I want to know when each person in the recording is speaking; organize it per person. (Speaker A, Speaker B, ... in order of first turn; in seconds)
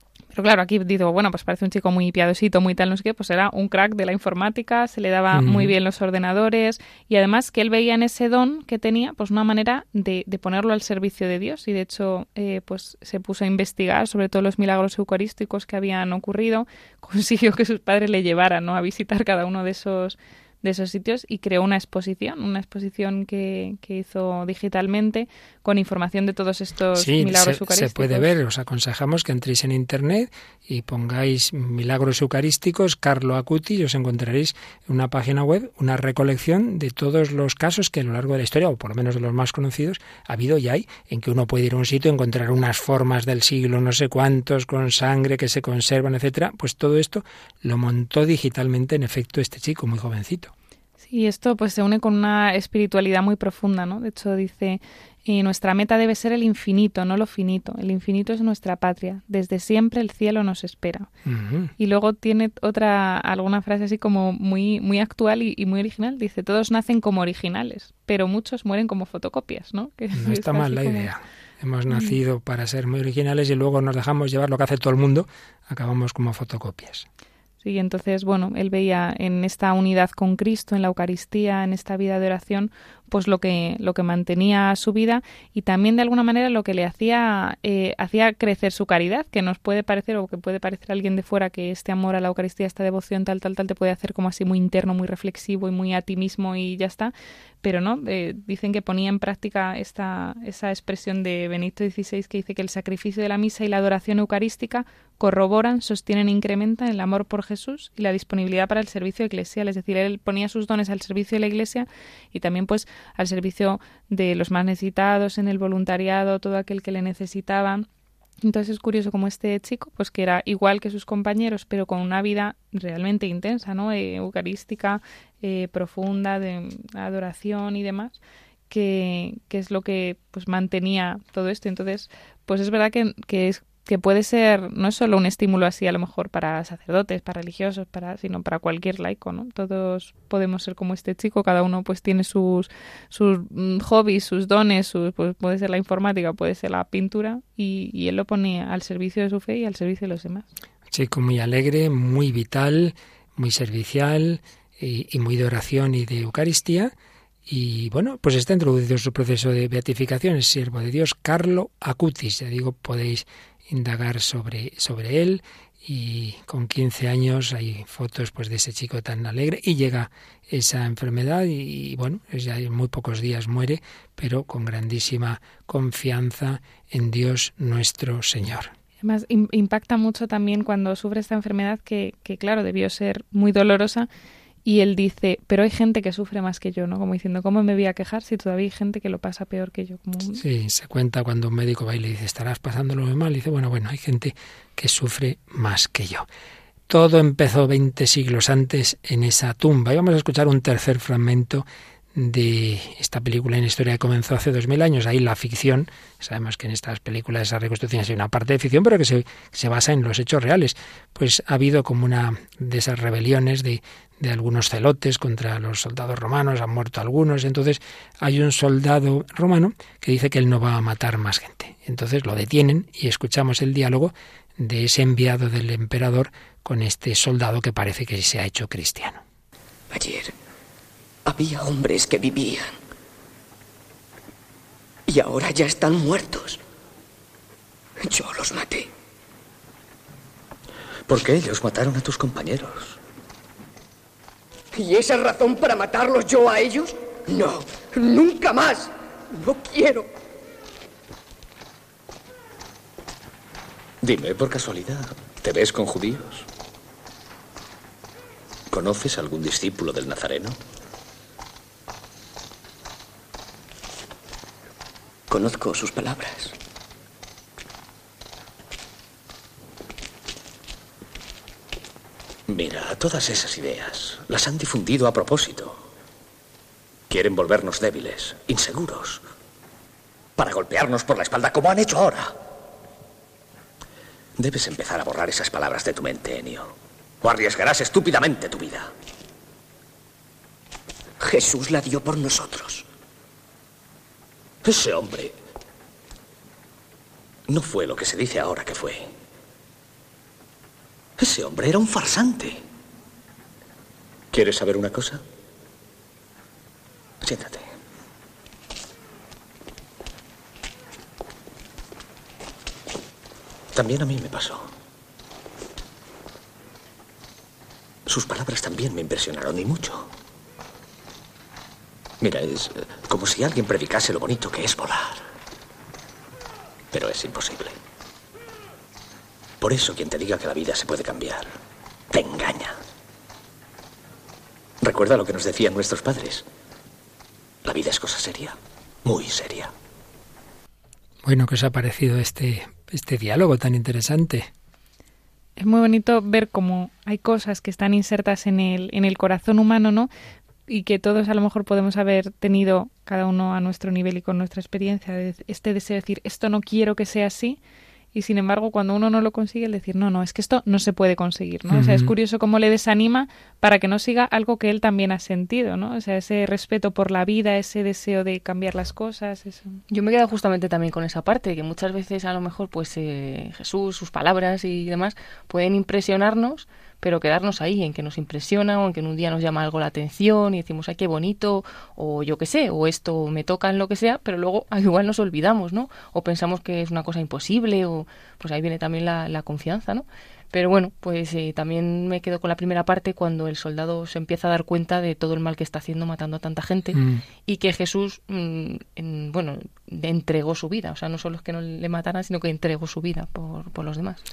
Speaker A: 0.3-28.3, 51.0-61.1, 61.8-71.1, 71.9-72.2, 77.6-117.9, 118.4-128.2, 128.7-150.5, 179.0-184.1, 184.7-190.4, 345.6-350.1, 350.7-357.6, 358.1-369.8
Speaker B: 5.3-5.8, 27.0-50.5, 61.3-61.7, 70.2-77.0, 150.9-156.9, 157.5-178.7, 190.3-196.3, 196.9-229.2, 341.2-344.5, 361.7-362.1, 396.9-397.2
Speaker C: 229.9-230.3, 231.3-232.8, 235.1-236.6, 238.1-238.9, 244.7-250.1, 265.3-266.6, 291.2-292.9
Speaker D: 241.1-243.0, 254.0-256.5, 258.7-260.6, 272.5-275.8, 277.1-279.2, 280.4-282.4, 284.4-288.9, 294.6-295.3, 297.5-299.1, 301.2-302.6, 304.3-305.2, 307.2-307.7, 313.7-314.7, 318.1-320.1, 322.2-325.2, 326.9-327.8, 329.6-331.5, 332.1-332.8, 334.8-336.5, 337.6-339.7
Speaker E: 369.9-404.2